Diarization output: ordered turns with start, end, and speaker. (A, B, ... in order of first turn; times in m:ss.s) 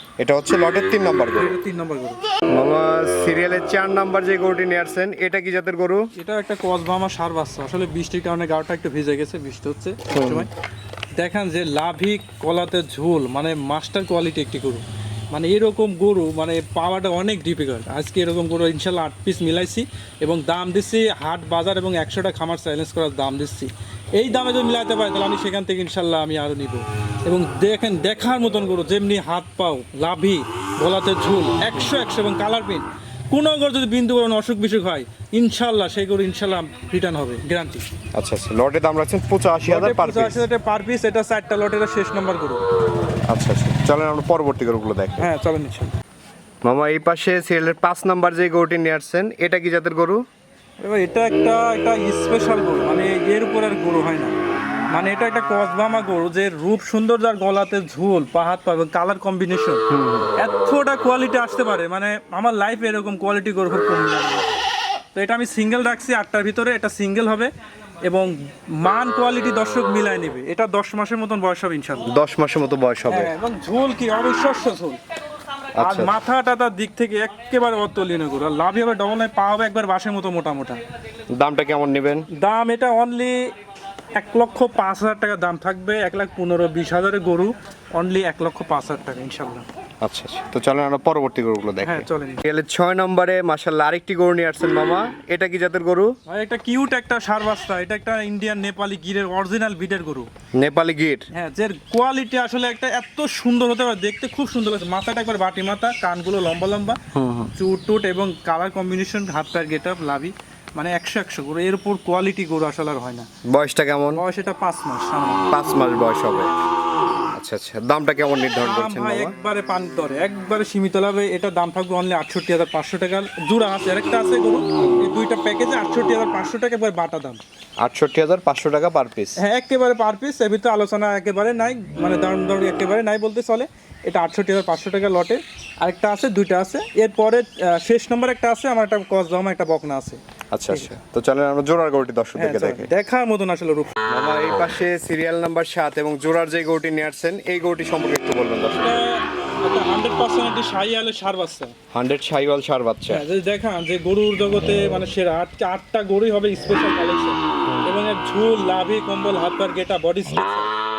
0:00.2-0:01.5 A
0:01.4-0:02.2 B
0:02.5-0:06.1 A
0:06.2-0:10.5 B
0:10.1-0:10.5 A
0:11.2-0:37.8 B
0:38.1-0:40.4 A
0:39.7-0:42.6 B
0:43.3-0:45.3 A
0:45.2-0:46.0 B
0:46.6-0:50.2 A
0:50.8-0:54.4 B
0:54.9-0:59.8 B
0:59.9-1:00.3 A
1:00.4-1:04.5 B
1:05.2-1:07.5 B
1:08.0-1:12.1 B
1:12.1-1:13.3 A
1:13.1-1:15.0 B
1:15.8-1:16.2 A
1:15.8-1:20.8 B
1:21.3-1:22.3 A
1:22.3-1:23.5 B
1:24.2-1:29.7 B
1:30.0-1:36.2 A
1:31.8-1:32.4 B
1:36.3-1:40.3 B
1:40.6-1:41.3 A
1:41.3-1:47.0 B
1:47.1-1:47.5 A
1:47.6-1:53.3 B
1:53.5-1:54.2 A
1:54.1-1:55.5 B
1:55.5-1:56.5 A
1:57.4-1:59.4 A
1:58.6-2:07.4 B
2:04.8-2:05.1 A
2:07.8-2:09.4 A
2:09.4-2:20.9 B
2:20.5-2:22.9 A
2:22.4-2:24.0 B
2:24.1-2:29.0 A
2:28.7-2:31.7 B
2:31.9-2:33.2 A
2:33.1-2:40.7 B
2:37.7-2:38.0 A